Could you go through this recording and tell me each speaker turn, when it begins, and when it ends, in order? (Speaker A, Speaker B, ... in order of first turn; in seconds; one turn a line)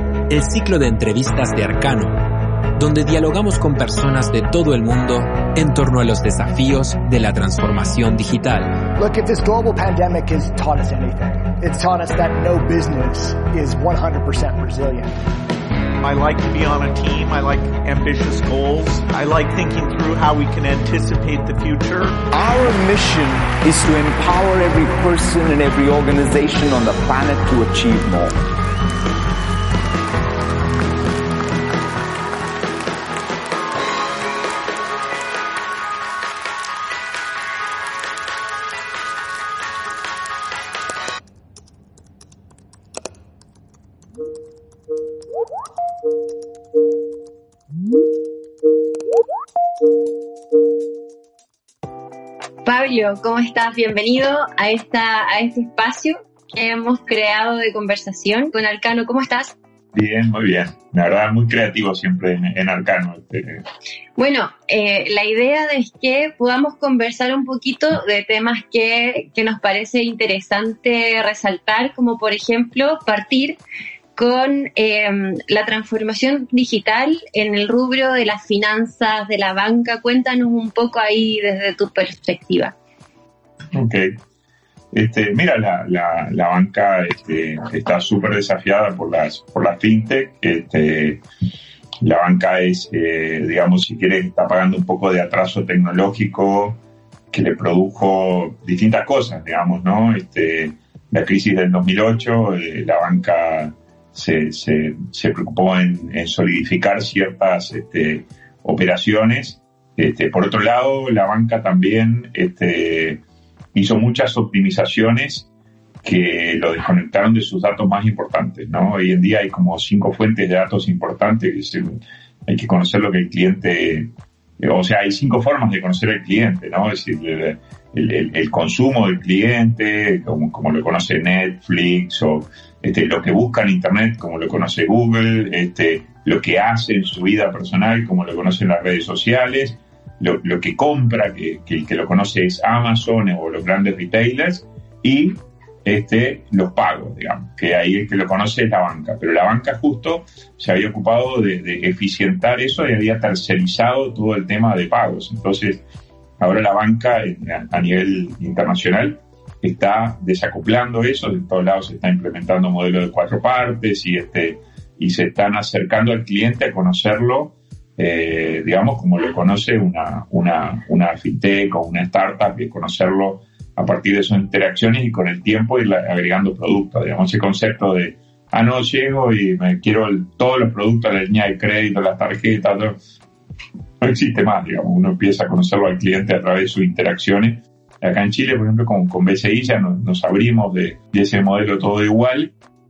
Speaker A: 0.3-2.1
Speaker A: 2.8-8.8
Speaker B: 9.0-15.1
Speaker C: 16.0-22.2
Speaker D: 22.3-28.4
Speaker E: 52.6-59.6
Speaker F: 59.9-63.6
Speaker E: 64.2-73.6
Speaker E: 74.2-82.8
Speaker F: 83.8-84.1
Speaker F: 84.9-91.2
Speaker F: 92.0-113.2
Speaker F: 113.7-115.5
Speaker F: 116.0-121.9
Speaker F: 122.5-155.8
Speaker F: 156.4-183.0
Speaker F: 184.0-192.5